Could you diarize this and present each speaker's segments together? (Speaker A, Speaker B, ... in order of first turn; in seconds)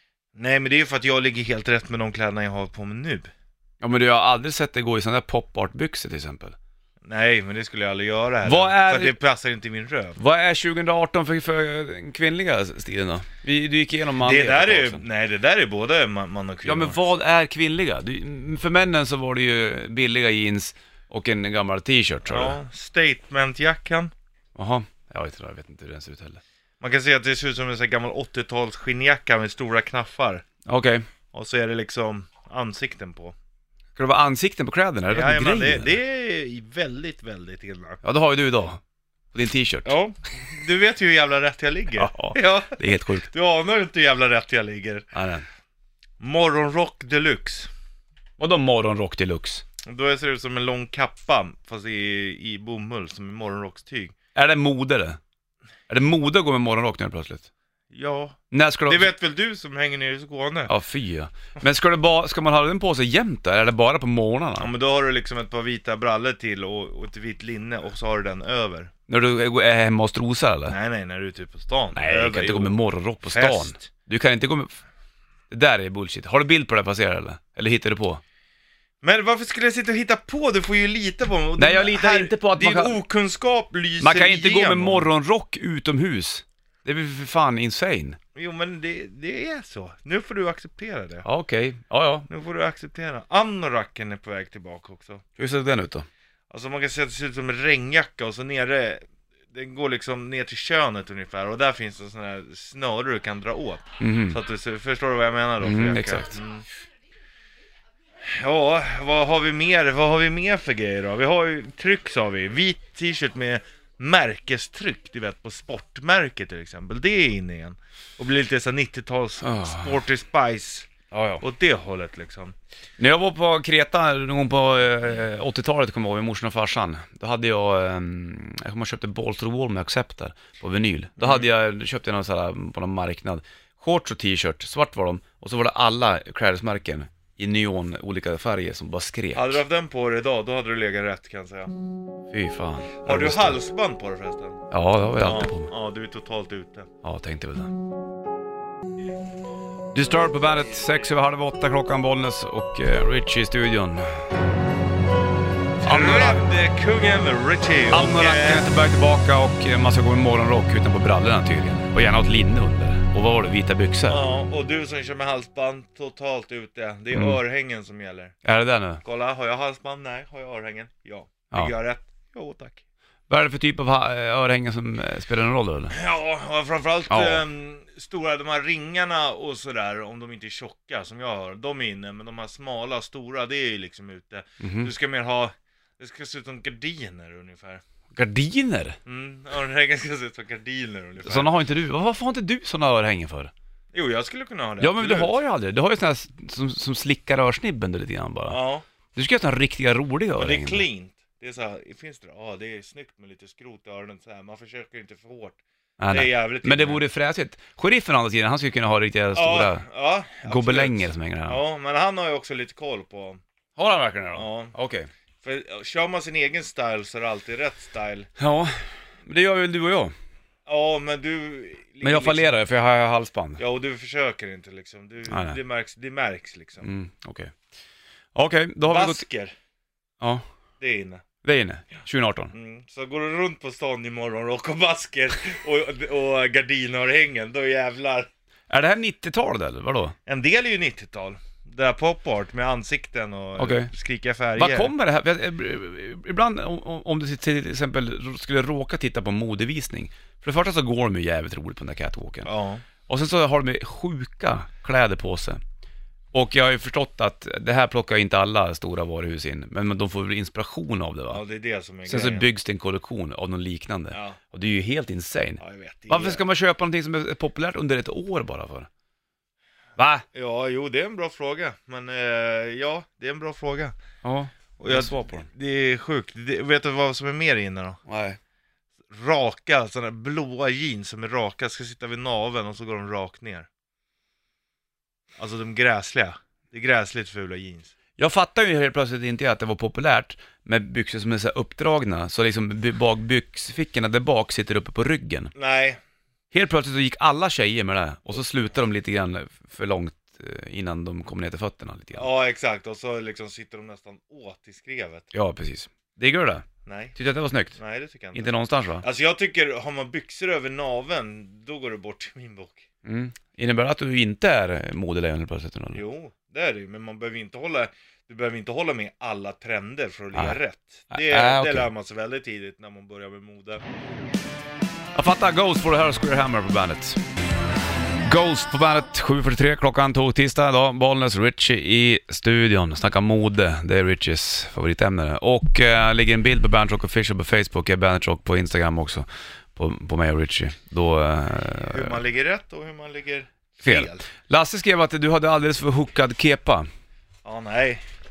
Speaker A: 0.3-3.3, 7.0-10.2, 14.2-17.0, 22.3-24.1, 26.8-30.4, 31.3-33.3, 35.1-38.0, 39.8-45.0, 46.2-47.7, 49.8-54.1, 57.9-60.7, 64.6-68.9, 70.7-73.8, 79.0-85.1, 88.3-91.2, 92.3-95.2, 96.5-99.0, 99.5-106.7, 108.2-120.9, 121.4-122.5, 131.2-131.5, 139.3-141.7, 143.0-144.6, 145.2-146.9, 155.8-158.7, 164.1-168.3, 169.0-172.8, 175.9-187.8, 189.1-191.5, 193.9-195.3, 198.5-198.8, 200.3-205.6, 206.1-207.0, 209.3-213.4, 214.3-214.7, 215.4-218.3, 220.7-222.5, 223.6-226.9, 228.9-229.5, 230.8-231.2, 232.5-238.3, 240.2-244.9, 252.4-252.8, 261.3-262.4, 264.1-264.4, 265.6-266.4, 270.3-273.9, 274.8-278.0, 279.1-283.7, 285.4-287.9, 295.5-296.0, 302.1-305.3, 306.9-307.1, 307.8-308.5, 309.0-312.8, 315.9-323.8, 341.9-344.2, 347.4-348.0
Speaker B: 3.8-6.5, 8.4-9.1, 10.2-15.0, 16.6-22.6, 24.6-26.4, 30.6-31.0, 34.0-35.9, 38.0-38.8, 39.3-40.0, 42.0-43.3, 45.1-45.4, 48.4-49.6, 54.3-55.2, 55.9-57.5, 58.5-59.1, 60.7-64.7, 69.1-70.8, 71.9-74.7, 75.5-78.2, 81.6-83.0, 84.0-88.2, 91.2-92.2, 95.4-96.0, 104.0-104.4, 105.6-106.3, 119.4-120.0, 121.1-121.4, 123.0-139.6, 142.3-143.6, 144.7-145.7, 147.0-147.7, 149.9-154.1, 155.8-156.4, 157.9-164.2, 167.1-167.4, 168.4-169.0, 173.3-175.9, 177.1-177.4, 184.6-184.9, 188.1-189.0, 191.2-193.5, 194.8-198.6, 199.1-200.8, 206.0-209.8, 210.4-211.6, 213.8-215.1, 218.4-220.1, 222.0-223.6, 225.3-225.6, 226.8-227.5, 228.3-229.2, 231.4-232.5, 238.7-240.1, 243.6-243.9, 244.6-252.5, 253.1-255.6, 256.3-261.4, 262.1-268.9, 270.0-270.2, 274.2-275.5, 278.1-278.4, 288.2-295.5, 296.5-302.3, 305.3-307.8, 308.3-309.0, 313.0-316.0, 321.1-321.9, 325.1-327.2, 328.2-342.1, 343.8-346.9